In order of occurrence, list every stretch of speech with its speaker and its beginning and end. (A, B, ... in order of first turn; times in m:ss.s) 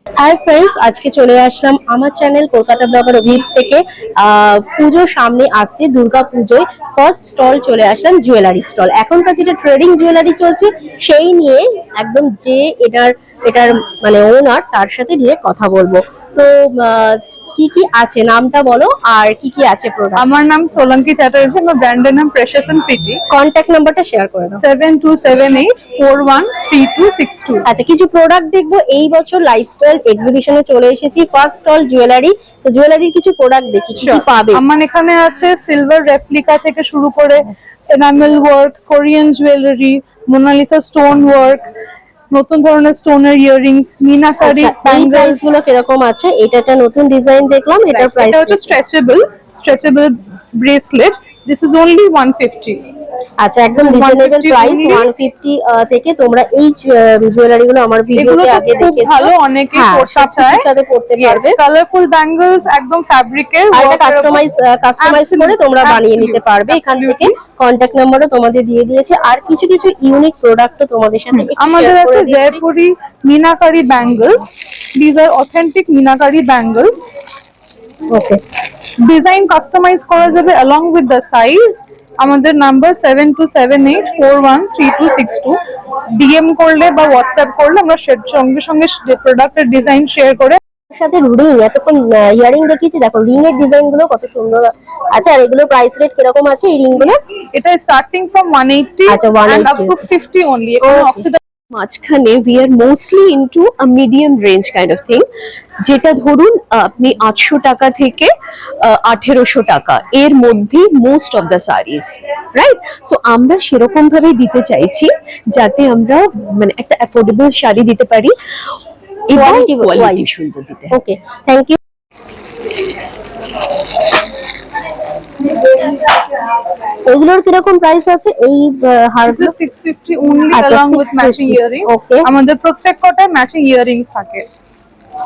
0:00.2-0:20.2 A
0:20.2-0:23.2 B
0:23.3-0:24.6 A
0:24.6-0:27.7 B
0:27.6-0:34.6 A
0:34.0-0:41.6 B
0:42.3-0:45.5 B
0:44.4-0:48.7 A
0:47.9-0:52.8 B
0:53.4-1:01.6 A
0:53.8-0:55.1 B
0:58.2-1:00.6 B
1:01.2-1:04.4 B
1:03.7-1:12.6 A
1:05.0-1:07.3 B
1:11.3-1:17.1 B
1:18.1-1:18.4 A
1:19.0-1:25.6 B
1:26.2-1:30.6 B
1:30.9-1:37.2 A
1:37.5-1:41.4 B
1:39.1-1:40.2 A
1:40.8-1:41.2 A
1:41.7-1:45.3 C
1:45.8-1:58.4 C
1:59.3-2:00.9 C
1:59.3-2:00.3 A
2:00.9-2:01.8 A
2:05.5-2:06.0 A
2:07.0-2:09.5 A
2:09.3-2:14.4 B
2:10.5-2:12.3 A